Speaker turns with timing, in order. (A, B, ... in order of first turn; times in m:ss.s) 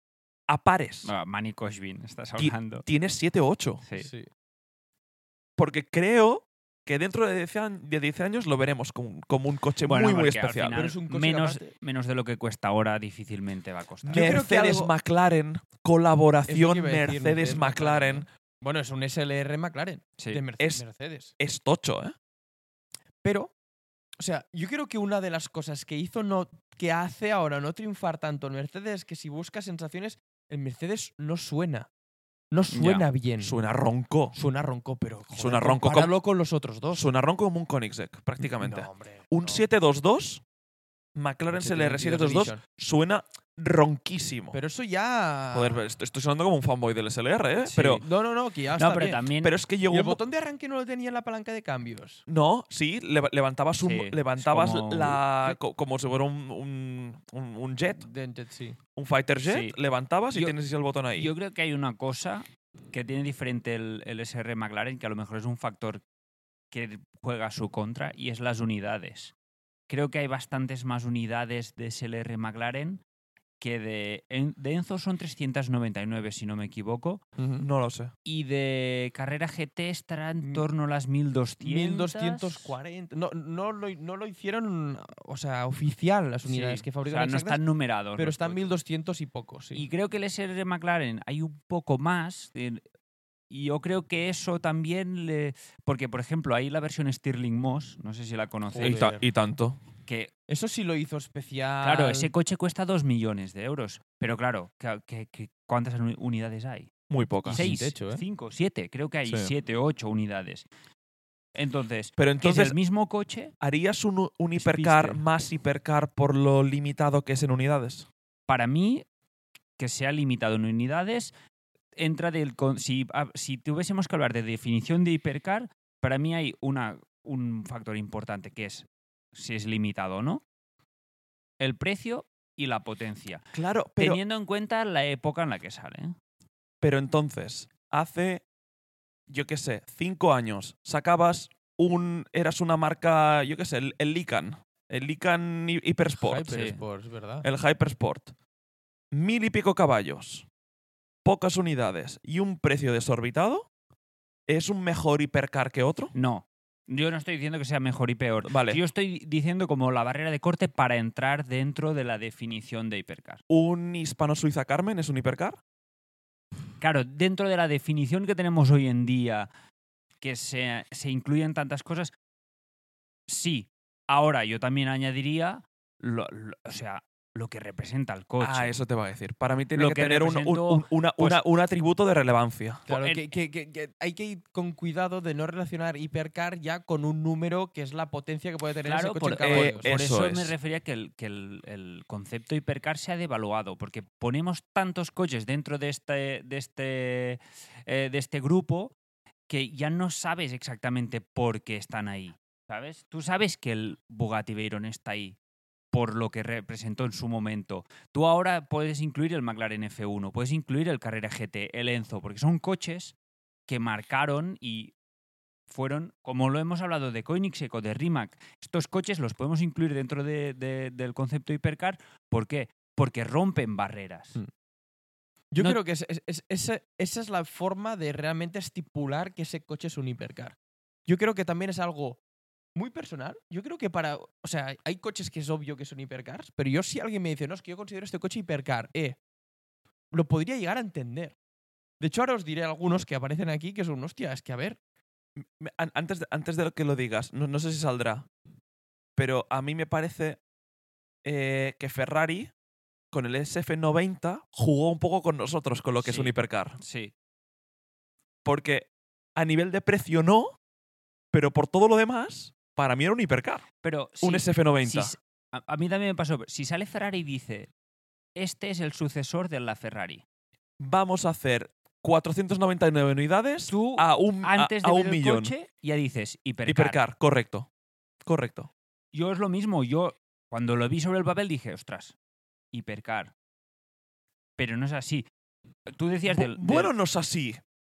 0:00.5-0:01.1 A
0:01.0-0:02.9 B
0:02.4-0:03.8 A
0:03.9-0:04.3 C
0:05.6-0:10.8 A
0:09.9-0:14.4 B
0:10.7-0:11.7 C
0:14.0-0:18.3 A
0:14.1-0:14.9 C
0:16.5-0:21.3 C
0:20.2-0:20.4 B
0:20.6-0:20.8 A
0:21.4-0:22.2 A
0:23.2-0:23.5 C
0:24.2-0:31.9 C
0:32.5-0:33.6 C
0:32.7-0:33.0 B
0:33.4-0:34.4 A
0:34.3-0:37.1 C
0:35.3-0:36.1 A
0:36.9-0:40.4 A
0:38.4-0:39.7 C
0:41.2-0:44.6 A
0:41.6-0:42.6 C
0:44.5-0:45.8 C
0:45.5-0:48.0 A
0:47.7-0:48.0 B
0:47.7-0:49.2 C
0:48.8-0:49.6 B
0:49.4-0:50.2 A
0:49.9-0:52.2 C
0:52.3-0:58.1 A
0:53.8-0:55.5 B
0:58.0-0:58.8 C
0:59.0-1:01.3 A
0:59.4-0:59.8 B
1:01.2-1:06.0 B
1:06.7-1:09.3 B
1:09.9-1:13.0 B
1:13.6-1:17.2 B
1:17.4-1:17.7 C
1:17.6-1:18.1 A
1:18.3-1:22.8 B
1:21.6-1:27.6 C
1:26.5-1:28.7 B
1:28.2-1:29.9 C
1:29.7-1:32.8 B
1:33.5-1:39.1 B
1:38.7-1:39.2 C
1:38.8-1:39.8 A
1:40.5-1:42.3 C
1:41.8-1:46.9 B
1:47.1-1:47.6 A
1:47.4-1:50.6 B
1:47.5-1:48.2 C
1:49.3-1:49.5 A
1:51.6-1:53.5 B
1:52.2-1:52.8 A
1:53.6-1:58.1 A
1:54.6-1:55.2 B
1:58.5-1:59.0 B
1:59.8-2:01.3 B
2:02.0-2:10.4 B
2:11.6-2:13.4 B
2:13.5-2:14.2 A
2:14.0-2:16.2 B
2:16.8-2:18.4 A
2:19.3-2:26.5 A
2:26.2-2:27.4 C
2:26.5-2:26.8 B
2:27.4-2:28.3 A
2:29.1-2:30.5 A
2:31.2-2:33.7 A
2:34.5-2:36.1 A
2:36.2-2:43.4 B
2:38.4-2:38.8 A
2:43.5-2:45.6 A
2:46.8-2:49.5 B
2:50.2-2:52.1 B
2:53.3-2:58.8 B
2:58.4-3:02.9 A
2:59.7-3:01.4 B
3:02.9-3:03.2 B
3:02.9-3:09.9 C
3:08.8-3:18.9 B
3:09.4-3:10.5 A
3:19.5-3:25.4 B
3:25.9-3:33.1 B
3:33.7-3:34.9 B
3:35.7-3:44.4 B
3:45.5-3:52.2 C
3:52.8-3:59.2 C
4:00.1-4:01.4 C
4:02.0-4:04.8 C
4:05.4-4:08.3 A
4:09.2-4:10.4 A
4:11.2-4:12.5 A
4:13.1-4:16.8 A
4:16.0-4:17.1 B
4:18.4-4:20.6 A
4:21.3-4:23.7 A
4:23.8-4:27.7 B
4:24.2-4:25.2 A
4:28.4-4:30.2 B
4:30.8-4:35.5 A
4:33.7-4:37.0 B
4:36.7-4:37.7 A
4:38.3-4:38.7 A
4:39.1-4:42.2 B
4:42.7-4:43.3 B
4:44.6-4:45.3 B
4:45.9-4:46.9 B
4:46.3-4:47.6 A